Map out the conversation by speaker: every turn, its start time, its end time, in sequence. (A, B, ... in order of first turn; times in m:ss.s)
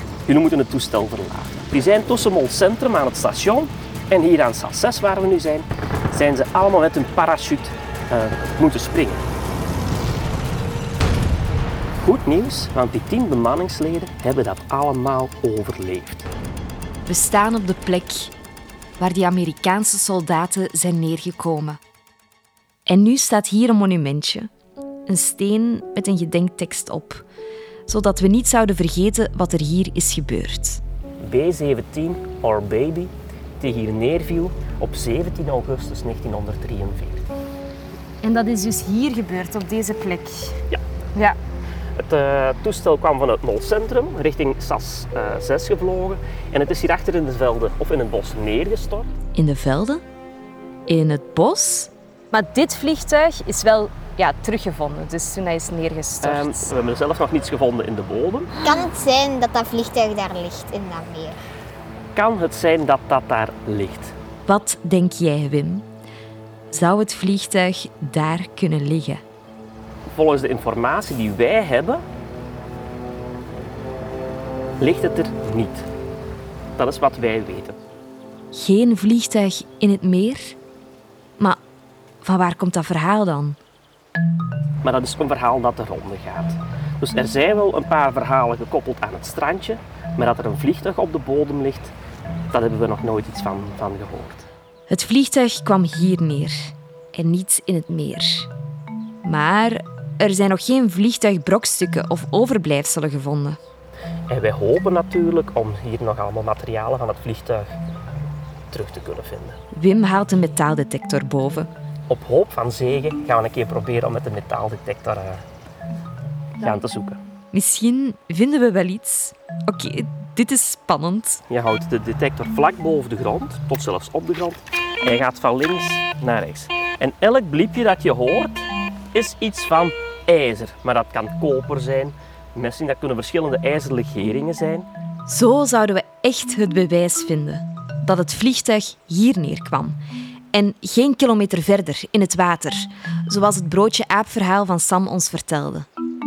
0:00.3-0:09.2 A
0:12.0-0:16.3 A
0:17.1-0:18.3 B
0:19.0-0:21.8 B
0:22.9-0:24.5 B
0:25.1-0:27.2 B
0:27.9-0:30.8 B
0:31.2-0:37.3 A
0:38.2-0:40.6 C
0:42.0-0:49.1 A
0:49.3-0:50.0 B
0:50.9-0:51.9 B
0:52.3-0:56.7 C
0:56.2-0:58.5 A
0:58.6-1:01.4 D
1:02.2-1:04.1 A
1:04.5-1:05.9 B
1:06.7-1:09.2 B
1:10.1-1:12.0 A
1:14.8-1:15.9 A
1:16.8-1:17.8 A
1:18.5-1:20.6 B
1:22.2-1:23.6 B
1:24.8-1:31.9 A
1:32.5-1:34.5 A
1:34.9-1:38.5 B
1:39.2-1:43.6 B
1:44.3-1:47.8 A
1:48.7-1:49.6 A
1:49.7-1:51.7 B
1:52.1-1:55.4 A
1:56.6-1:57.2 A
1:57.5-2:01.4 B
2:01.5-2:14.9 A
2:15.3-2:20.0 B
2:20.5-2:25.9 B